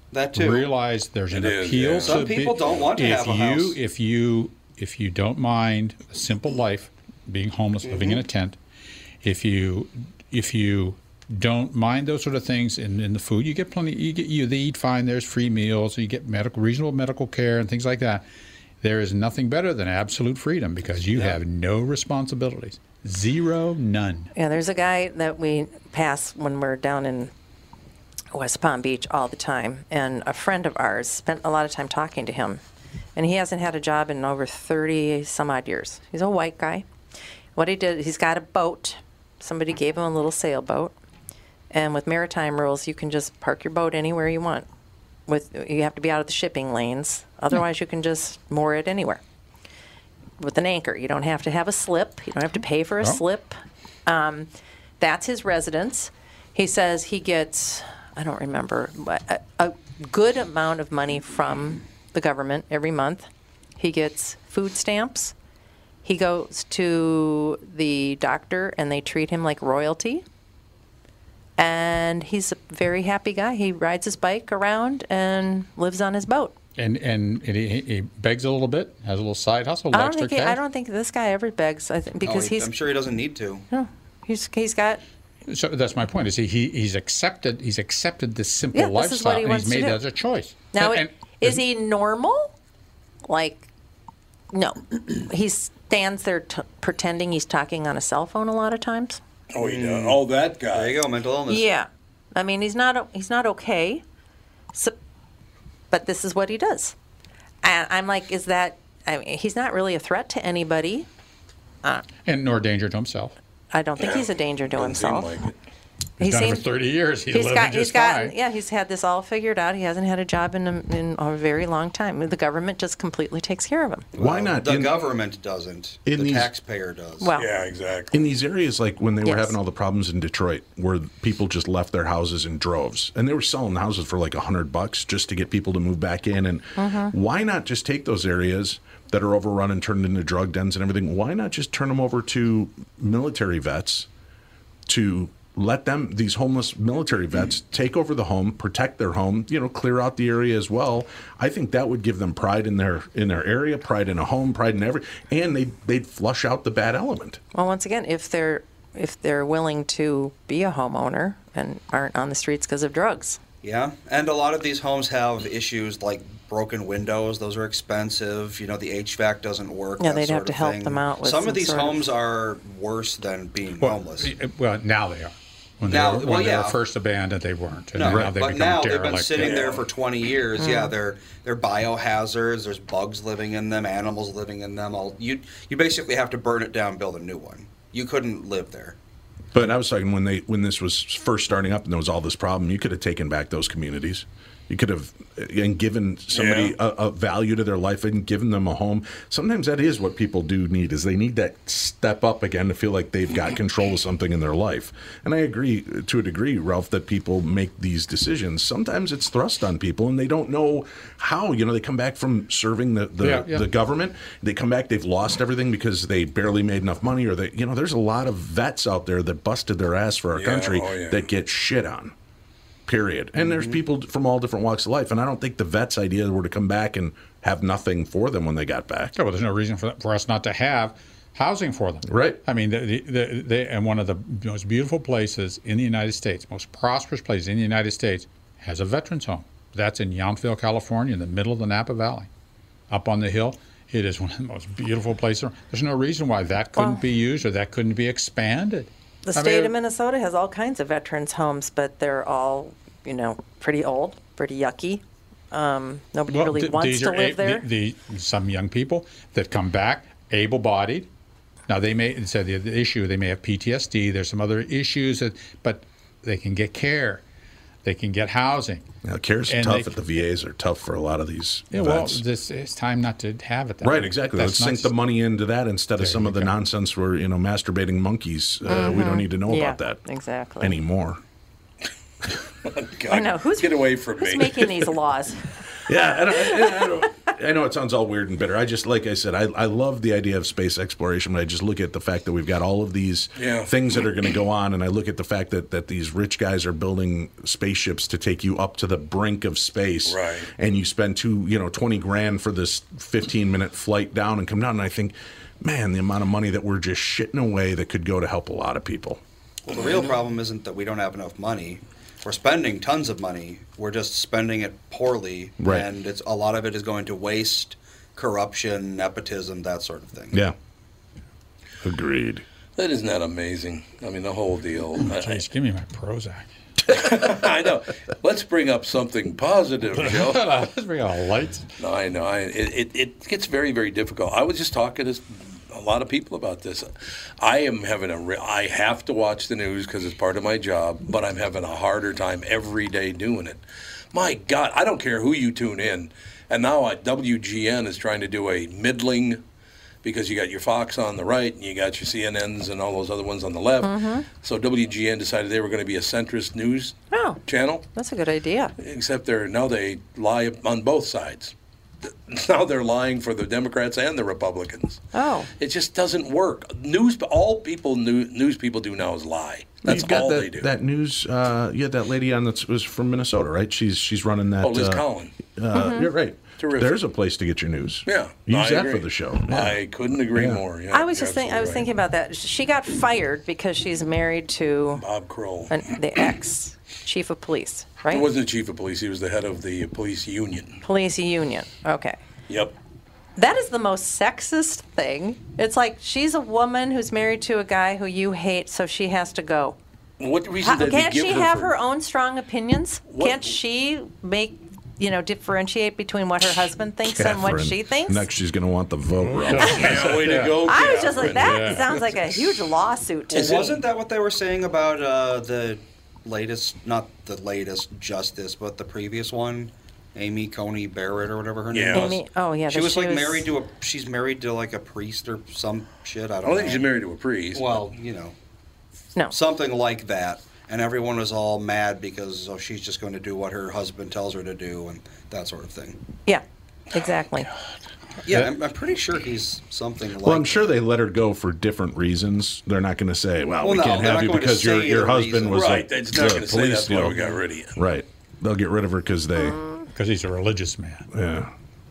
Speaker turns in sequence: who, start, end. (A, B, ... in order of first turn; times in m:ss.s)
0:00.1-0:00.7 A
0:00.3-0:08.6 B
0:01.3-0:02.7 C
0:02.0-0:03.8 A
0:07.8-0:08.2 A
0:09.2-0:18.2 B
0:18.8-0:24.3 B
0:21.0-0:21.4 A
0:24.3-0:27.3 D
0:28.3-0:32.6 D
0:33.2-0:36.8 D
0:37.6-0:40.9 D
0:41.7-0:44.7 D
0:45.3-0:49.2 D
0:50.4-0:54.5 D
0:55.0-1:03.3 D
1:03.8-1:05.3 D
1:06.0-1:10.2 D
1:11.6-1:16.6 D
1:16.8-1:20.6 B
1:19.9-1:22.7 D
1:22.2-1:23.7 A
1:23.7-1:25.0 D
1:25.5-1:31.6 B
1:28.7-1:30.0 D
1:30.7-1:32.5 D
1:33.3-1:33.7 D
1:34.5-1:39.2 D
1:39.5-1:41.0 C
1:39.6-1:41.7 A
1:41.5-1:44.0 D
1:45.9-1:47.0 D
1:47.6-1:51.1 D
1:52.2-1:53.4 B
1:53.7-1:55.4 D
1:54.0-1:55.6 C
1:56.2-1:56.7 D
1:56.2-1:58.3 B
1:57.3-2:04.1 D
2:04.1-2:07.4 A
2:04.2-2:05.0 E
2:06.0-2:06.5 E
2:07.2-2:07.5 D
2:07.4-2:08.2 C
2:08.1-2:24.1 E
2:09.2-2:09.6 D
2:16.8-2:17.1 D
2:24.9-2:37.4 E
2:37.5-2:43.4 D
2:43.6-2:54.3 A
2:50.0-2:52.0 D
2:53.8-2:59.7 B
2:55.8-2:56.8 A
2:57.9-3:09.0 A
2:59.4-2:59.8 C
3:00.6-3:00.9 D
3:09.5-3:42.1 E
3:16.3-3:16.8 C
3:33.2-3:33.6 B
3:40.3-3:41.2 C
3:42.9-3:49.1 E
3:43.4-3:43.8 A
3:49.1-4:02.3 B
3:52.1-3:52.4 E
4:02.9-4:09.7 B
4:09.3-4:17.7 D
4:16.3-4:21.1 B
4:21.7-4:27.2 B
4:27.8-4:28.9 B
4:29.0-4:32.2 E
4:29.5-4:30.0 B
4:31.7-4:34.9 B
4:33.8-4:40.0 E
4:36.0-4:36.5 B
4:38.7-4:40.8 D
4:40.6-4:41.2 E
4:42.6-4:44.9 C
4:43.1-4:45.6 D
4:45.9-5:09.2 E
4:46.3-4:47.0 D
4:53.4-4:53.7 C
5:00.0-5:00.5 C
5:09.7-5:20.4 A
5:09.7-5:10.2 C
5:15.6-5:15.9 E
5:21.8-5:22.4 E
5:22.8-5:25.4 C
5:25.0-5:26.5 B
5:26.9-5:30.4 C
5:30.0-5:31.7 B
5:31.8-5:36.9 C
5:37.4-5:43.6 C
5:44.1-5:49.4 C
5:50.0-5:57.8 C
5:53.8-5:54.3 D
5:57.1-5:57.4 D
5:57.9-5:58.7 D
5:58.8-6:05.0 C
6:05.1-6:05.5 D
6:05.6-6:10.7 C
6:09.8-6:20.6 E
6:14.6-6:15.4 C
6:15.7-6:16.1 D
6:16.6-6:17.0 C
6:18.0-6:21.9 C
6:20.9-6:25.0 D
6:25.0-6:25.9 C
6:25.7-6:28.3 D
6:28.1-6:30.8 C
6:30.8-6:32.2 D
6:32.5-6:32.7 C
6:33.4-6:39.8 D
6:40.2-6:41.7 C
6:40.6-6:48.3 D
6:43.1-6:43.6 C
6:47.0-6:49.9 E
6:49.2-6:50.6 B
6:49.6-6:52.0 C
6:50.6-6:53.5 D
6:51.2-6:52.0 B
6:53.3-6:53.8 C
6:53.3-7:06.9 A
7:01.7-7:02.2 C
7:01.9-7:03.4 D
7:06.4-7:07.9 C
7:07.5-7:08.3 A
7:09.3-7:16.0 A
7:16.3-7:17.5 D
7:18.2-7:20.7 A
7:20.2-7:27.2 E
7:23.6-7:25.8 A
7:25.5-7:27.8 C
7:27.7-7:29.6 E
7:30.0-7:31.1 B
7:31.1-7:31.5 E